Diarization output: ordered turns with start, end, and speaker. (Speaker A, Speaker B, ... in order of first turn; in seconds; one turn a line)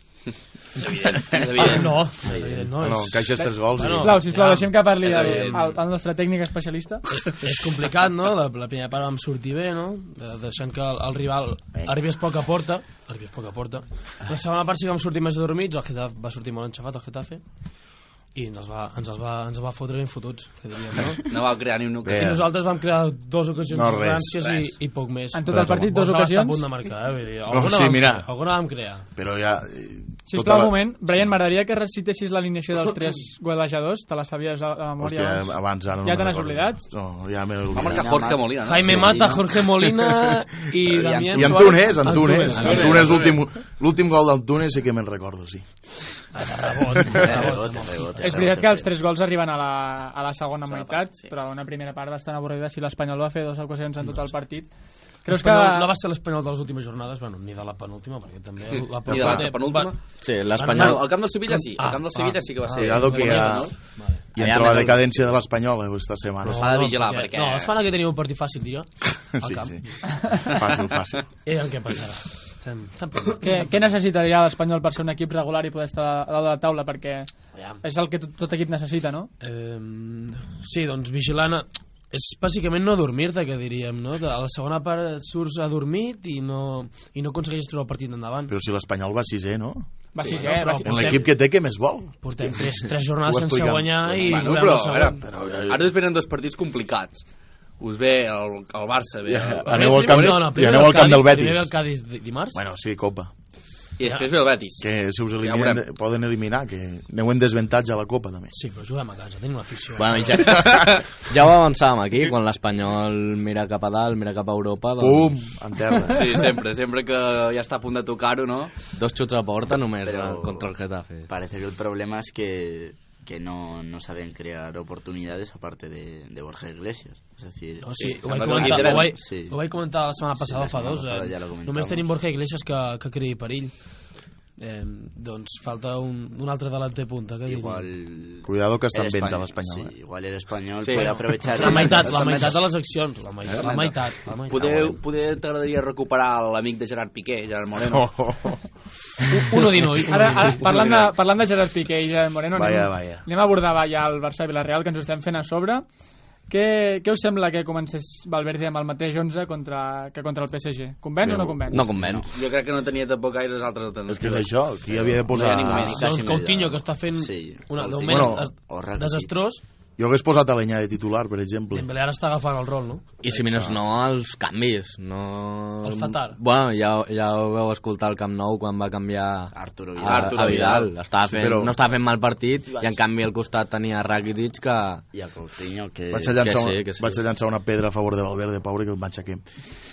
Speaker A: 0.8-2.0
Speaker B: 1.6-5.8
Speaker C: 2.3-2.5
Speaker D: 2.8-4.2
Speaker E: 3.4-7.1
Speaker A: 5.0-5.7
Speaker B: 7.2-21.3
Speaker A: 21.3-22.4
Speaker D: 22.0-22.4
Speaker B: 22.1-29.1
Speaker D: 23.7-24.4
Speaker A: 24.4-24.7
Speaker E: 25.3-26.6
Speaker D: 25.5-25.9
Speaker D: 27.5-31.3
Speaker E: 30.3-36.9
Speaker D: 35.0-38.2
Speaker C: 37.7-39.7
Speaker A: 37.7-39.2
Speaker B: 38.6-43.2
Speaker C: 40.8-43.1
Speaker D: 41.3-46.3
Speaker A: 42.5-43.4
Speaker B: 46.3-48.5
Speaker D: 46.9-47.4
Speaker C: 47.1-48.9
Speaker E: 48.2-55.9
Speaker A: 50.7-51.3
Speaker B: 55.3-64.4
Speaker A: 59.0-60.1
Speaker D: 59.1-59.5
Speaker F: 60.2-61.1
Speaker A: 60.7-63.9
Speaker D: 62.8-66.9
Speaker F: 64.3-65.2
Speaker B: 66.4-70.2
Speaker A: 66.4-67.7
Speaker D: 69.2-71.3
Speaker B: 71.4-73.8
Speaker E: 73.4-79.3
Speaker B: 79.4-88.5
Speaker D: 88.5-89.9
Speaker E: 90.1-91.2
Speaker B: 90.3-91.7
Speaker D: 90.8-94.5
Speaker B: 92.2-95.2
Speaker A: 94.2-97.2
Speaker D: 95.2-95.9
Speaker A: 97.8-101.2
Speaker D: 99.3-101.7
Speaker B: 99.6-102.6
Speaker D: 102.5-103.3
Speaker A: 104.0-104.8
Speaker D: 104.8-108.5
Speaker A: 105.4-105.8
Speaker B: 108.5-110.7
Speaker F: 110.0-115.4
Speaker D: 115.0-116.5
Speaker A: 116.1-118.9
Speaker F: 118.9-121.3
Speaker C: 120.0-120.7
Speaker C: 121.3-132.1
Speaker B: 127.8-137.9
Speaker A: 127.9-129.1
Speaker C: 137.4-142.6
Speaker D: 138.4-139.9
Speaker A: 140.8-142.5
Speaker B: 141.0-145.0
Speaker A: 143.6-148.4
Speaker D: 147.8-148.6
Speaker B: 149.3-150.6
Speaker E: 150.1-155.8
Speaker A: 150.6-151.1
Speaker D: 152.5-153.2
Speaker E: 156.5-161.8
Speaker D: 161.2-161.9
Speaker F: 161.7-162.3
Speaker C: 161.9-162.3
Speaker A: 162.3-164.6
Speaker D: 164.1-166.0
Speaker C: 164.9-169.4
Speaker A: 165.3-166.0
Speaker B: 165.8-169.6
Speaker D: 168.1-168.5
Speaker D: 170.0-171.9
Speaker B: 171.7-173.2
Speaker F: 173.2-185.0
Speaker D: 173.3-173.8
Speaker B: 175.8-176.4
Speaker C: 179.5-180.9
Speaker A: 180.0-180.9
Speaker D: 181.2-181.7
Speaker C: 182.7-183.0
Speaker C: 185.1-186.4
Speaker D: 186.1-189.6
Speaker F: 186.4-187.2